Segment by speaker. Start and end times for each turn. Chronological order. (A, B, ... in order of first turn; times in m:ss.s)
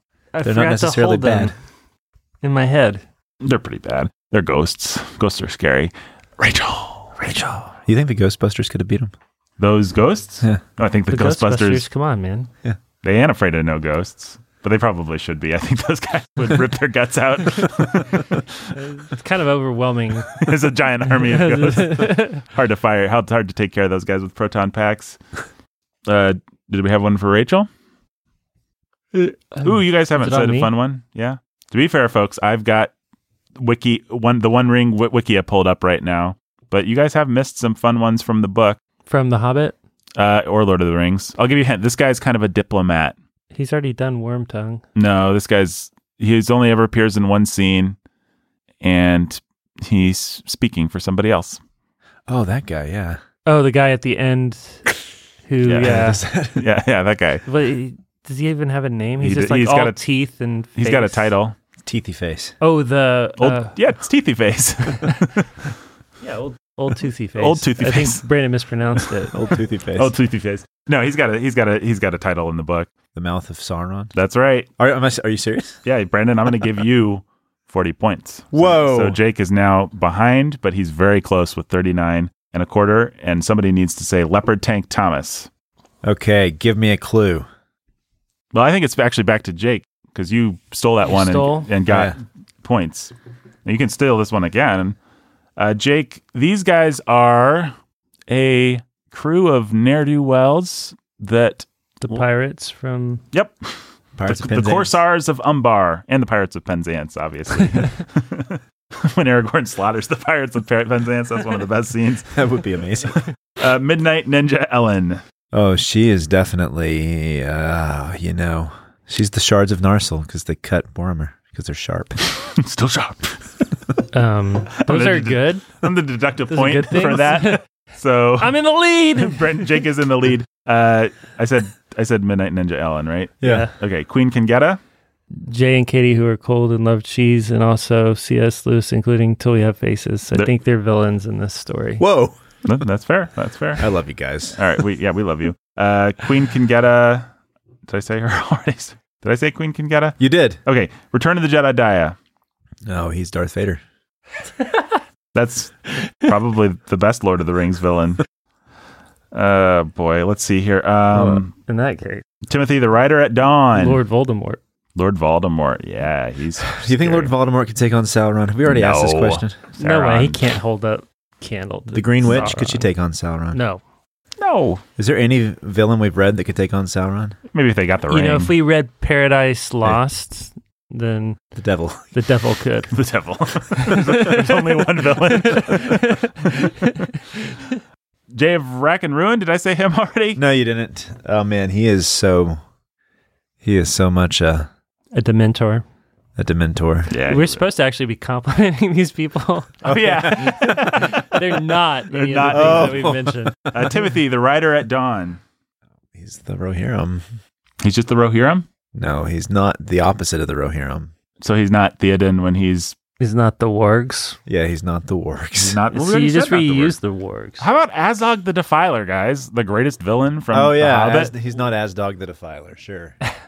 0:00.3-0:01.5 A
0:00.4-0:01.5 B
0:02.4-0:03.0 A
0:03.4-0:07.2 C
0:07.2-0:07.7 A
0:07.8-0:09.1 B
0:09.6-0:11.8 C
0:11.1-0:12.5 A
0:13.0-0:18.8 C
0:18.7-0:20.5 A
0:20.3-0:25.2 C
0:21.2-0:22.4 A
0:26.1-0:27.7 C
0:29.1-0:30.7 A
0:29.6-0:32.9 C
0:33.6-0:38.8 C
0:39.1-0:39.7 A
0:40.2-0:43.2 C
0:43.5-0:44.8 A
0:44.9-0:48.0 C
0:48.8-0:51.6 C
0:52.3-0:53.2 B
0:53.4-0:56.2 A
0:55.6-0:57.4 C
0:55.8-0:56.6 B
0:57.4-1:01.3 A
0:59.2-1:00.0 C
1:00.8-1:01.6 C
1:01.8-1:02.5 B
1:02.6-1:03.8 A
1:03.4-1:05.7 C
1:06.2-1:09.4 A
1:07.4-1:08.2 C
1:09.0-1:09.3 C
1:09.3-1:10.1 B
1:10.0-1:12.9 C
1:13.1-1:14.1 B
1:14.1-1:14.7 C
1:14.8-1:15.8 B
1:15.8-1:25.5 C
1:18.5-1:19.2 B
1:26.0-1:27.4 B
1:28.5-1:33.1 C
1:31.0-1:31.7 A
1:31.9-1:32.2 B
1:33.6-1:35.0 C
1:35.6-1:37.7 C
1:38.3-1:42.2 C
1:42.0-1:43.2 A
1:44.2-1:45.0 B
1:44.2-1:52.4 C
1:52.3-1:53.2 B
1:53.6-1:55.2 C
1:55.5-2:02.2 B
2:02.2-2:03.6 C
2:04.1-2:05.6 A
2:04.7-2:08.6 C
2:06.5-2:07.6 A
2:08.4-2:09.8 A
2:09.1-2:14.8 C
2:13.4-2:13.7 B
2:13.4-2:13.7 A
2:15.3-2:22.0 A
2:22.0-2:22.8 B
2:22.6-2:23.9 C
2:23.8-2:24.6 B
2:24.5-2:27.3 C
2:27.9-2:32.2 C
2:30.2-2:30.6 B
2:32.8-2:33.8 B
2:35.3-2:38.2 C
2:39.3-2:41.5 C
2:41.1-2:41.4 B
2:41.5-2:42.2 A
2:42.4-2:44.0 C
2:43.7-2:44.6 A
2:45.0-2:47.3 C
2:46.8-2:49.6 B
2:48.6-2:50.4 C
2:49.8-2:52.9 A
2:51.9-2:53.6 B
2:53.5-2:53.8 A
2:54.4-2:54.8 C
2:55.0-2:57.4 B
2:57.5-2:58.5 C
2:58.1-3:01.4 A
3:01.6-3:02.1 B
3:02.1-3:03.0 A
3:02.9-3:06.2 C
3:03.8-3:07.8 A
3:08.3-3:10.4 C
3:10.4-3:12.6 B
3:13.6-3:14.7 B
3:15.1-3:15.8 A
3:16.4-3:17.1 B
3:17.1-3:17.6 C
3:17.2-3:23.9 A
3:19.8-3:21.6 C
3:19.8-3:21.0 B
3:22.1-3:23.1 C
3:22.5-3:23.5 B
3:23.7-3:25.4 C
3:26.1-3:27.2 B
3:27.8-3:28.6 C
3:28.9-3:31.1 B
3:31.4-3:33.0 C
3:33.2-3:34.4 A
3:34.5-3:35.8 B
3:35.6-3:37.0 C
3:35.9-3:37.6 A
3:37.6-3:41.3 C
3:40.5-3:43.2 B